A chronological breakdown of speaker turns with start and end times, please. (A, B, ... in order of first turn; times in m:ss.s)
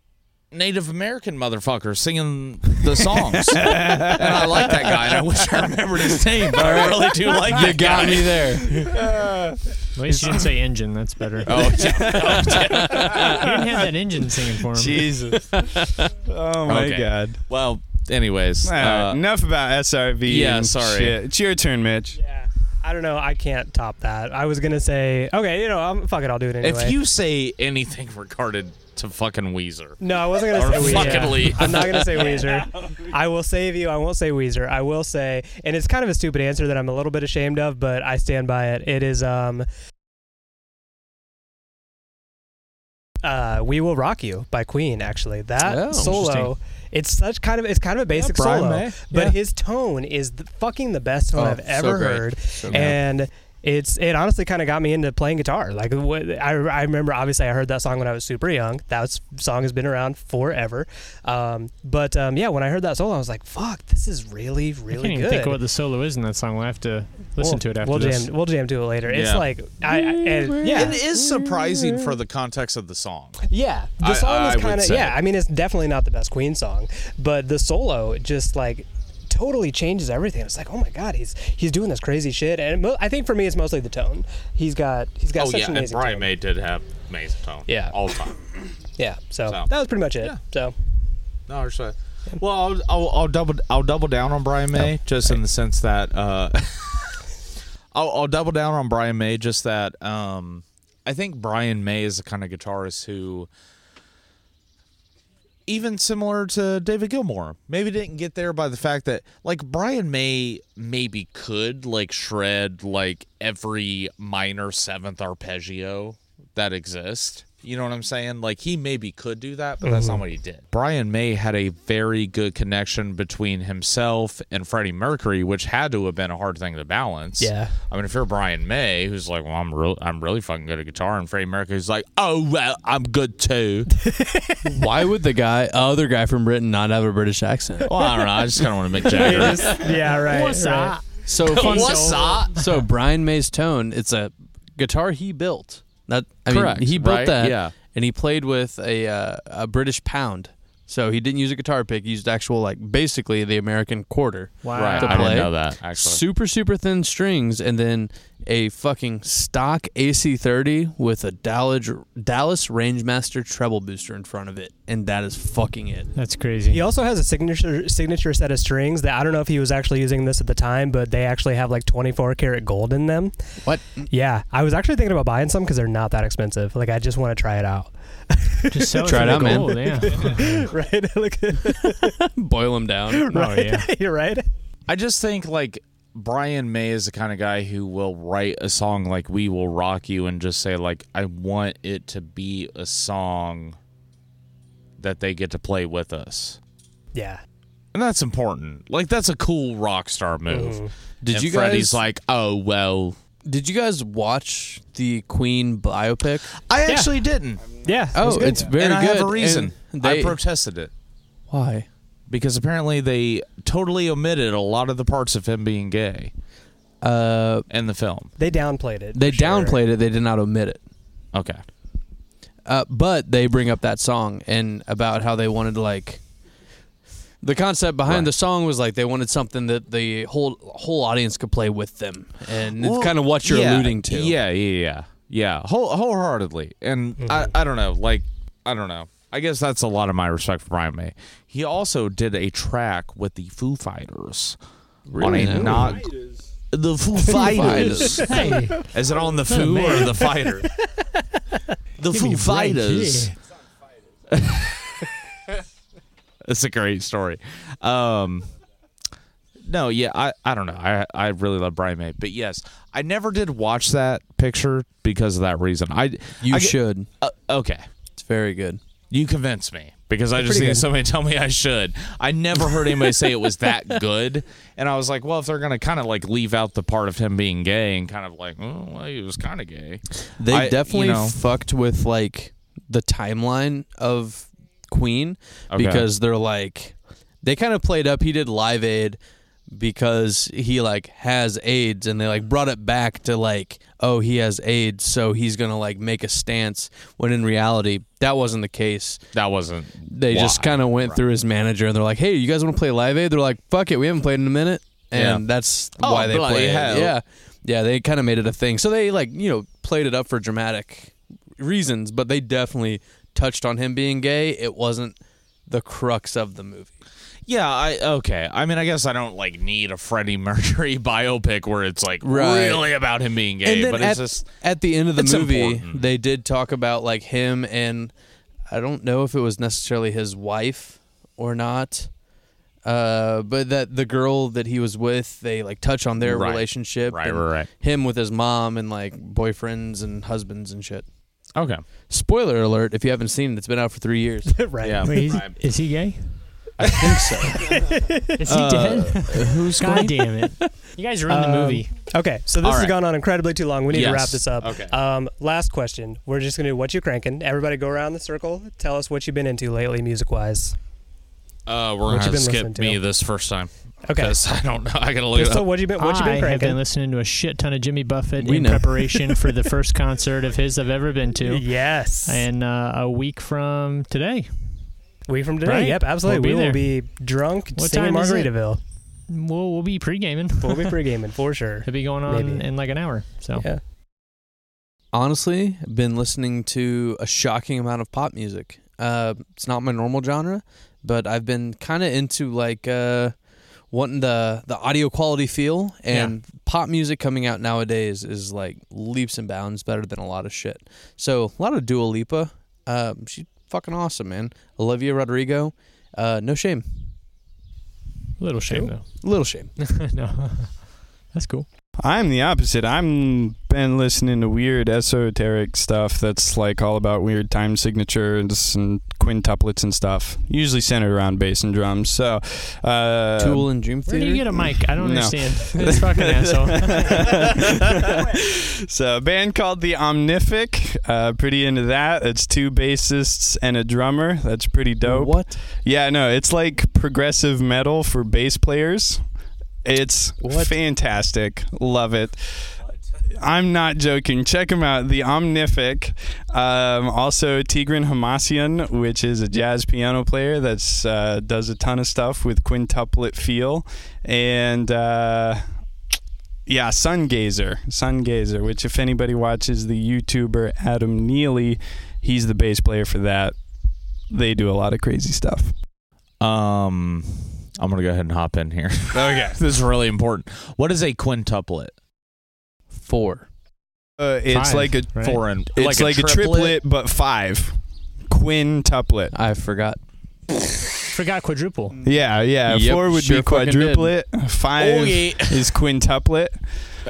0:00.5-0:08.4 A
0:03.0-0:05.2 B
0:06.5-0:09.1 C
0:08.7-0:10.4 B
0:09.9-0:11.8 D
0:11.4-0:13.3 A
0:11.8-0:17.4 B
0:12.0-0:13.4 C
0:13.1-0:15.1 D
0:15.4-0:16.1 C
0:16.6-0:19.2 A
0:18.6-0:22.2 B
0:20.2-0:21.2 A
0:22.2-0:27.0 E
0:26.6-0:32.4 A
0:30.0-0:39.7 E
0:30.9-0:31.4 D
0:31.4-0:31.9 C
0:43.2-1:05.6 E
0:45.6-0:46.5 C
0:46.2-0:46.5 D
0:48.2-0:49.0 A
0:51.3-0:53.0 C
1:04.9-1:08.3 D
1:07.4-1:11.0 E
1:09.0-1:09.5 A
1:09.8-1:12.2 C
1:10.6-1:13.4 A
1:13.5-1:26.3 E
1:14.0-1:15.2 A
1:25.3-1:28.4 A
1:27.7-1:27.9 E
1:29.0-1:30.7 E
1:31.5-1:37.2 A
1:37.9-1:43.5 A
1:45.7-2:13.9 A
1:59.8-2:00.2 E
2:07.4-2:07.7 E
2:14.0-2:14.8 E
2:14.6-2:18.0 C
2:17.8-2:19.7 A
2:19.1-2:21.0 E
2:19.3-2:19.6 C
2:20.1-2:22.4 D
2:21.2-2:46.1 C
2:21.4-2:22.7 A
2:26.5-2:27.8 A
2:34.6-2:35.4 D
2:34.7-2:36.2 A
2:46.1-2:46.8 D
2:46.7-2:53.3 E
2:53.6-2:54.1 C
2:54.1-3:02.2 E
2:58.7-3:00.6 D
2:59.0-3:00.1 C
3:01.8-3:03.3 C
3:03.1-3:04.4 E
3:03.3-3:03.9 D
3:04.9-3:13.8 A
3:15.0-3:16.6 A
3:17.1-3:17.4 E
3:17.9-3:23.2 A
3:20.5-3:20.9 E
3:21.2-3:22.0 C
3:23.4-3:26.6 C
3:26.6-3:30.9 A
3:26.9-3:27.2 E
3:27.8-3:28.6 E
3:28.1-3:30.4 C
3:31.5-3:31.8 C
3:32.3-3:36.3 A
3:37.0-3:37.6 C
3:37.7-3:38.3 A
3:38.4-3:39.8 E
3:39.1-3:40.8 C
3:41.3-3:41.6 A
3:42.6-3:46.2 C
3:47.4-3:54.4 C
3:52.8-4:04.6 A
3:57.2-3:57.5 E
4:05.1-4:06.0 C
4:05.2-4:06.1 A
4:06.7-4:10.7 A
4:07.2-4:08.3 C
4:07.3-4:08.8 E
4:08.2-4:08.8 D
4:09.5-4:10.2 D
4:09.8-4:10.5 E
4:12.0-4:13.3 A
4:12.1-4:13.4 D
4:14.3-4:15.0 A
4:16.4-4:18.5 A
4:19.6-4:27.8 A
4:26.4-4:27.1 C
4:28.2-4:28.8 C
4:29.1-4:41.4 A
4:30.4-4:30.8 E
4:40.4-4:49.2 C
4:45.7-4:46.1 A
4:49.7-4:59.2 C
4:59.3-5:01.2 A
5:00.1-5:15.2 C
5:05.1-5:05.4 A
5:06.0-5:07.2 A
5:15.7-5:16.9 C
5:17.4-5:24.5 A
5:22.2-5:23.0 C
5:23.6-5:28.1 C
5:25.2-5:26.0 A
5:28.7-5:32.1 C
5:32.8-5:41.0 C
5:36.2-5:37.7 A
5:41.5-5:41.8 A
5:42.1-5:44.6 C
5:44.5-5:45.4 E
5:44.8-5:45.6 A
5:45.0-5:46.3 D
5:46.8-5:47.1 A
5:46.8-5:48.4 E
5:46.9-5:47.9 C
5:48.4-5:51.9 D
5:48.4-5:50.2 A
5:49.1-5:49.6 C
5:51.3-6:00.7 E
5:52.6-5:53.0 A
5:53.9-5:55.0 A
6:01.7-6:05.7 A
6:02.1-6:03.0 E
6:04.0-6:04.4 E
6:05.3-6:06.8 E
6:06.0-6:11.7 D
6:08.4-6:09.4 C
6:11.4-6:12.4 E
6:12.2-6:14.5 D
6:15.3-6:18.8 E
6:15.6-6:16.9 D
6:17.7-6:18.5 D
6:19.3-6:21.0 D
6:20.6-6:22.7 E
6:21.8-6:23.7 D
6:23.6-6:23.8 E
6:25.1-6:33.3 C
6:33.9-6:47.1 C
6:48.4-6:51.7 D
6:49.1-6:49.7 C
6:52.0-7:03.7 B
7:03.4-7:04.4 C
7:04.1-7:07.5 D
7:04.9-7:19.2 B
7:15.0-7:15.6 C
7:19.8-7:22.7 B
7:20.4-7:20.8 C
7:23.4-7:35.6 B
7:36.7-7:43.6 B
7:44.3-7:45.7 B
7:46.4-7:51.9 A
7:53.0-7:53.5 C
7:54.2-7:59.3 B
7:54.5-7:55.4 D
7:55.2-7:56.8 A
7:59.3-8:00.0 C
8:01.1-8:02.0 D
8:02.0-8:06.6 B
8:02.6-8:04.1 C
8:04.8-8:05.7 A